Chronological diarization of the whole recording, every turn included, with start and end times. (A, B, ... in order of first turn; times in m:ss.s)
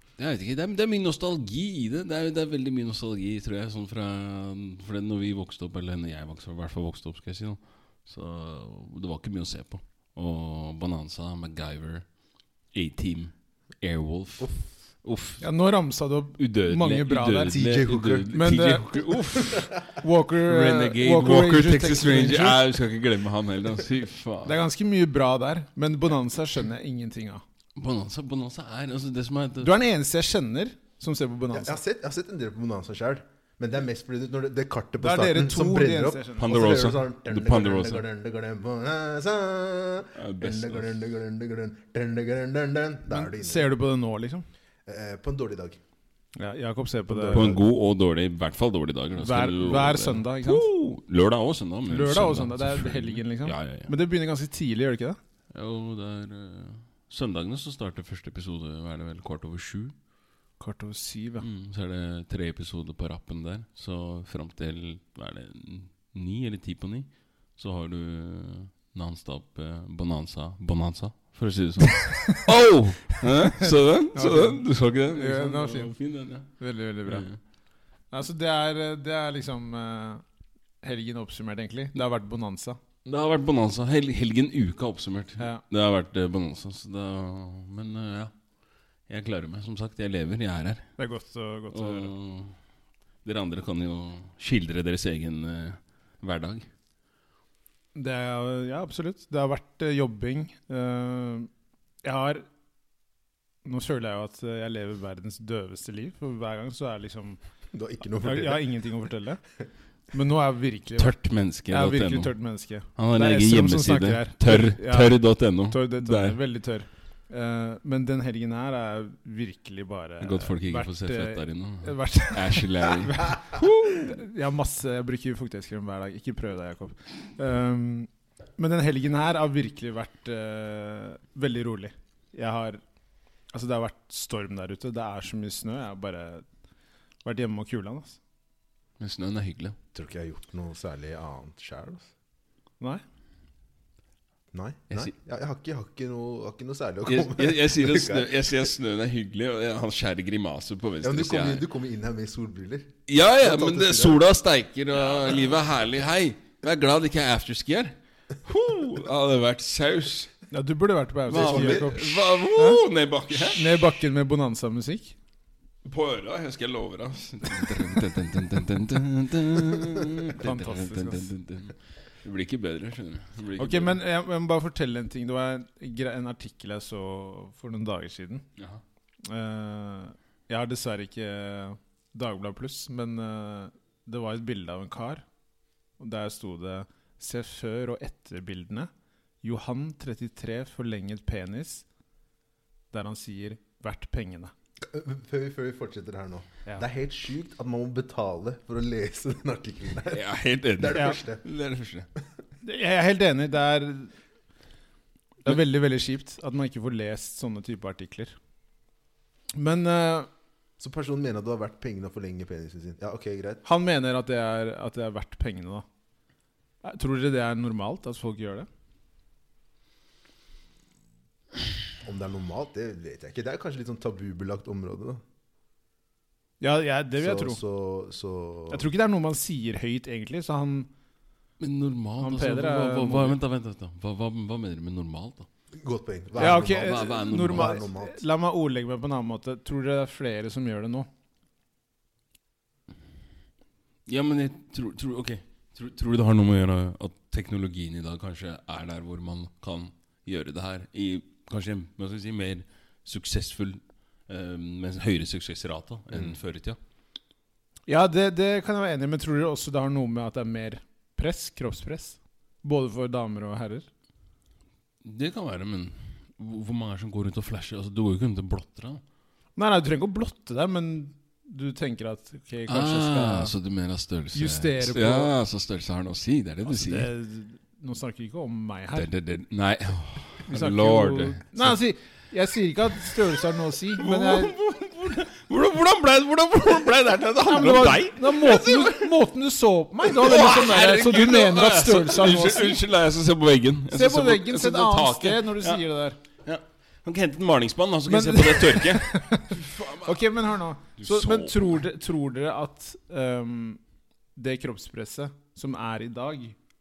0:00.2-0:12.1 A
0:12.7-0:15.5 A
0:15.4-0:17.6 B
0:16.4-0:19.9 A
0:17.5-0:18.3 C
0:18.3-0:19.3 B
0:19.9-0:22.6 B
0:20.4-0:24.6 A
0:24.4-0:27.4 B
0:27.8-0:29.7 A
0:29.6-0:31.8 B
0:31.5-0:43.7 C
0:35.0-0:36.9 B
0:36.4-0:38.0 A
0:40.2-0:40.9 A
0:43.1-0:44.4 B
0:44.9-0:45.8 C
0:46.4-0:47.6 B
0:47.1-0:47.6 C
0:47.3-0:53.9 A
0:49.2-0:50.7 B
0:51.9-0:55.2 B
0:55.5-1:00.0 A
1:00.6-1:01.5 B
1:01.4-1:16.5 A
1:12.1-1:12.4 B
1:13.6-1:15.9 B
1:16.6-1:17.3 B
1:17.0-1:17.4 A
1:18.1-1:20.2 B
1:20.8-1:22.8 B
1:23.0-1:28.3 A
1:25.4-1:25.6 B
1:29.1-1:30.8 A
1:31.0-1:32.1 B
1:31.7-1:32.6 A
1:33.2-1:36.7 A
1:38.0-1:41.5 B
1:42.0-1:42.5 B
1:43.6-1:47.4 B
1:47.7-1:48.7 C
1:48.2-1:49.4 B
1:50.1-1:51.2 B
1:51.0-1:52.3 A
1:51.7-2:12.8 B
1:53.0-1:56.4 A
2:00.2-2:03.4 A
2:13.5-2:16.4 B
2:17.2-2:18.2 B
2:19.0-2:19.8 A
2:19.9-2:22.1 C
2:24.5-2:28.6 C
2:27.1-2:31.6 A
2:31.0-2:34.2 C
2:33.1-2:40.3 A
2:40.5-2:42.8 B
2:41.3-2:42.2 C
2:41.3-2:43.6 A
2:43.5-2:45.2 B
2:45.8-2:54.0 A
2:50.4-2:51.3 B
2:53.6-2:58.4 B
2:58.6-2:58.8 A
2:59.2-3:05.2 B
3:06.0-3:08.9 B
3:09.4-3:11.8 B
3:12.9-3:14.5 B
3:14.8-3:20.3 C
3:20.1-3:22.1 A
3:20.8-3:21.4 C
3:22.6-3:24.1 B
3:25.4-3:28.4 B
3:29.6-3:30.3 B
3:30.8-3:33.6 C
3:33.6-3:35.8 B
3:36.8-3:38.7 B
3:42.0-3:45.2 C
3:46.6-3:47.6 B
3:47.2-3:48.9 C
3:48.7-3:50.9 B
3:51.6-3:55.5 A
3:52.2-3:53.4 B
3:55.8-3:58.2 C
3:56.4-4:01.1 B
3:56.4-3:57.8 A
4:04.1-4:16.8 A
4:17.9-4:23.9 B
4:25.0-4:29.0 A
4:29.6-4:33.5 B
4:32.7-4:37.1 A
4:34.3-4:35.3 B
4:36.7-4:39.1 B
4:39.0-4:41.7 A
4:40.5-4:44.5 B
4:44.0-4:49.1 A
4:47.4-4:52.8 B
4:50.1-4:55.9 A
4:53.9-4:56.2 B
4:56.4-5:00.3 A
4:58.1-5:03.8 B
5:01.0-5:01.8 A
5:04.4-5:06.6 B